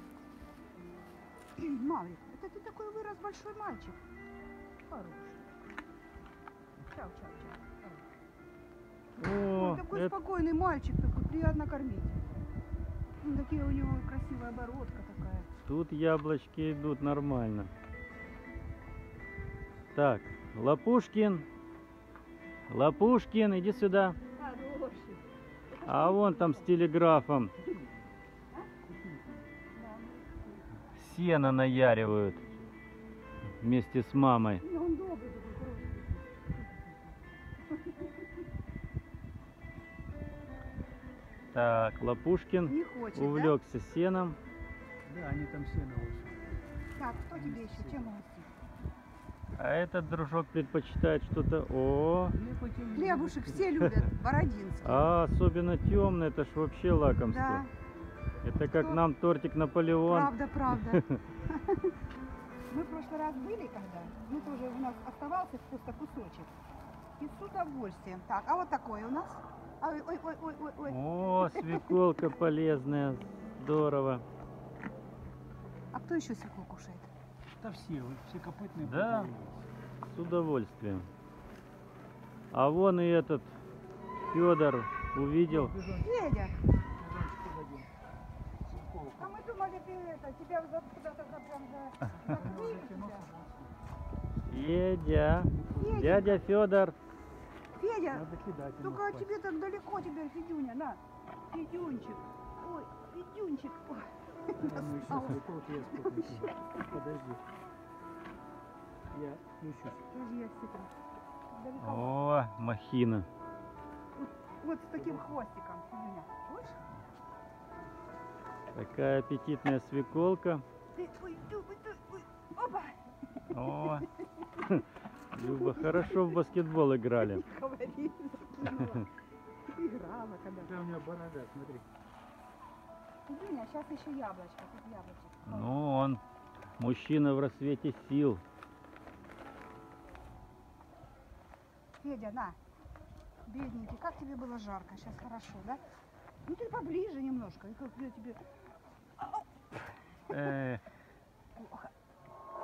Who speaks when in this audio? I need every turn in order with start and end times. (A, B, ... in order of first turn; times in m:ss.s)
0:01.6-0:04.0 A
0:04.8-0:05.5 A
0:06.9-0:08.0 A
0:09.2-0:10.1 B
0:09.4-0:12.3 A
0:13.2-0:15.5 A
0:15.6-0:17.7 B
0:20.0-0:21.5 B
0:22.7-0:24.2 B
0:24.4-0:26.6 A
0:25.8-0:27.5 B
0:29.7-0:30.7 A
0:31.0-0:32.4 B
0:33.6-0:34.6 B
0:34.6-0:36.5 A
0:37.7-0:38.2 A
0:41.5-0:44.4 B
0:42.7-0:43.6 A
0:45.0-0:46.5 C
0:47.0-0:48.5 A
0:47.3-0:48.1 C
0:49.6-0:52.4 B
0:52.4-0:53.8 C
0:52.9-0:55.1 A
0:54.8-0:57.7 B
0:57.2-0:57.7 A
0:58.4-1:01.2 B
0:58.7-0:59.0 A
1:00.0-1:02.0 A
1:02.7-1:06.5 A
1:07.2-1:12.0 A
1:10.9-1:14.2 B
1:15.9-1:17.1 A
1:17.6-1:19.6 C
1:18.8-1:19.4 B
1:20.0-1:21.1 B
1:22.5-1:23.5 B
1:24.3-1:25.8 B
1:25.5-1:26.1 C
1:26.0-1:26.6 A
1:27.0-1:27.9 C
1:28.6-1:29.4 C
1:29.2-1:33.3 A
1:32.2-1:33.7 C
1:34.5-1:37.0 B
1:35.6-1:36.2 C
1:35.8-1:36.4 A
1:37.8-1:38.2 A
1:38.1-1:39.3 C
1:38.8-1:46.6 A
1:44.6-1:47.4 C
1:49.1-1:50.0 C
1:50.1-1:50.9 A
1:51.5-1:52.2 A
1:51.8-1:53.3 B
1:54.2-1:56.8 A
1:55.0-1:55.3 C
1:58.7-2:00.6 B
2:01.0-2:03.0 A
2:03.5-2:04.1 B
2:03.8-2:04.4 A
2:04.6-2:07.4 B
2:05.4-2:06.4 A
2:07.2-2:09.1 A
2:09.7-2:10.7 A
2:10.7-2:11.9 C
2:13.3-2:15.7 A
2:15.5-2:16.2 B
2:16.8-2:18.4 B
2:22.0-2:22.6 A
2:23.5-2:25.8 A
2:26.4-2:28.4 A
2:29.2-2:29.4 A
2:30.3-2:30.8 B
2:31.6-2:31.9 A